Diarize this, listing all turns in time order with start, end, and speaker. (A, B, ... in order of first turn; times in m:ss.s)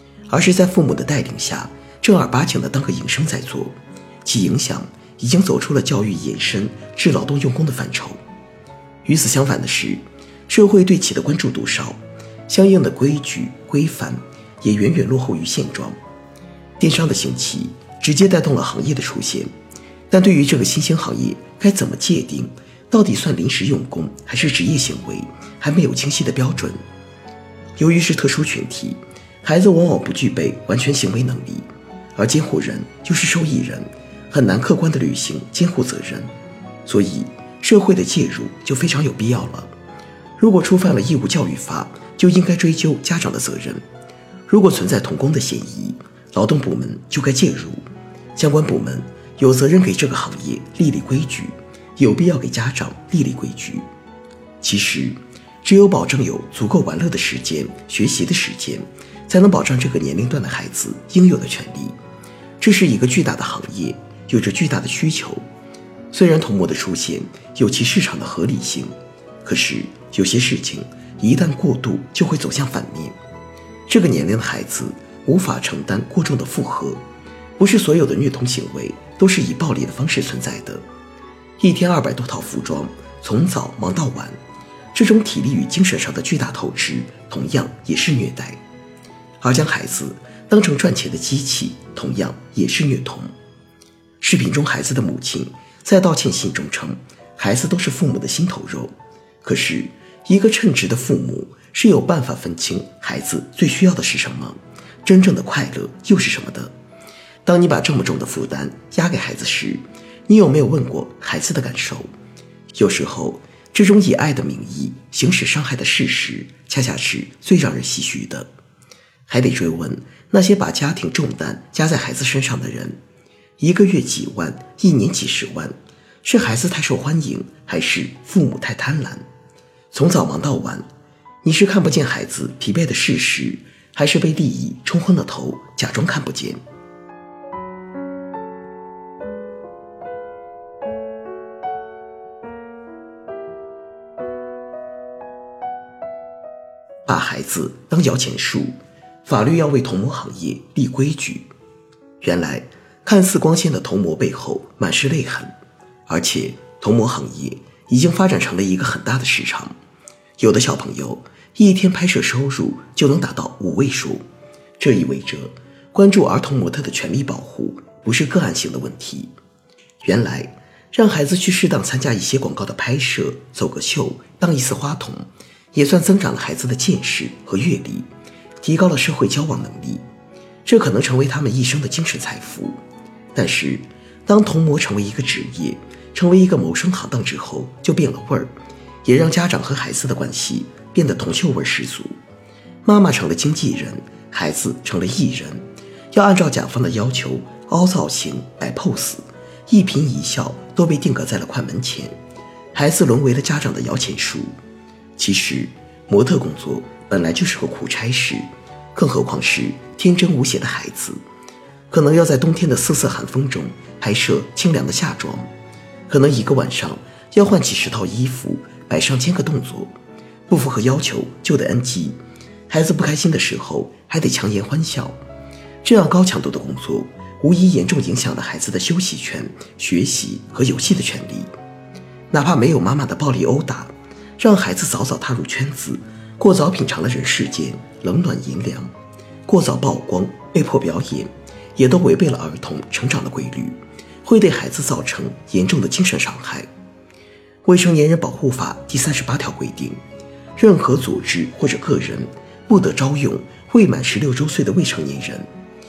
0:00.3-0:08.2 A
0:09.0-0:16.0 A
0:16.8-0:19.5 A
0:20.1-0:26.8 A
0:27.8-0:36.3 A
0:36.8-0:39.7 A
0:40.4-0:43.8 A
0:44.5-0:47.8 A
0:48.4-0:53.9 A
0:54.6-1:02.0 A
1:02.6-1:05.4 A
1:06.1-1:08.9 A
1:09.4-1:13.2 A
1:13.9-1:17.0 A
1:17.6-1:20.8 A
1:21.6-1:24.4 A
1:24.9-1:28.6 A
1:29.4-1:33.3 A
1:34.2-1:46.7 A
1:47.4-1:52.1 A
1:52.7-1:58.5 A
1:59.3-2:03.0 A
2:03.6-2:09.2 A
2:09.9-2:10.8 A
2:11.4-2:16.6 A
2:27.0-2:28.7 A
2:29.2-2:31.5 A
2:32.2-2:35.5 A
2:36.1-2:39.7 A
2:40.4-2:44.2 A
2:44.8-2:49.3 A
2:50.0-2:58.1 A
2:58.6-3:00.0 A
3:00.6-3:02.8 A
3:03.3-3:08.5 A
3:09.0-3:12.1 A
3:12.8-3:22.1 A
3:22.7-3:24.5 A
3:25.2-3:31.2 A
3:31.9-3:35.5 A
3:36.1-3:39.9 A
3:40.5-3:42.2 A
3:42.7-3:45.2 A
3:45.8-3:51.5 A
3:52.3-3:58.9 A
3:59.4-4:06.7 A
4:07.6-4:10.0 A
4:10.6-4:15.5 A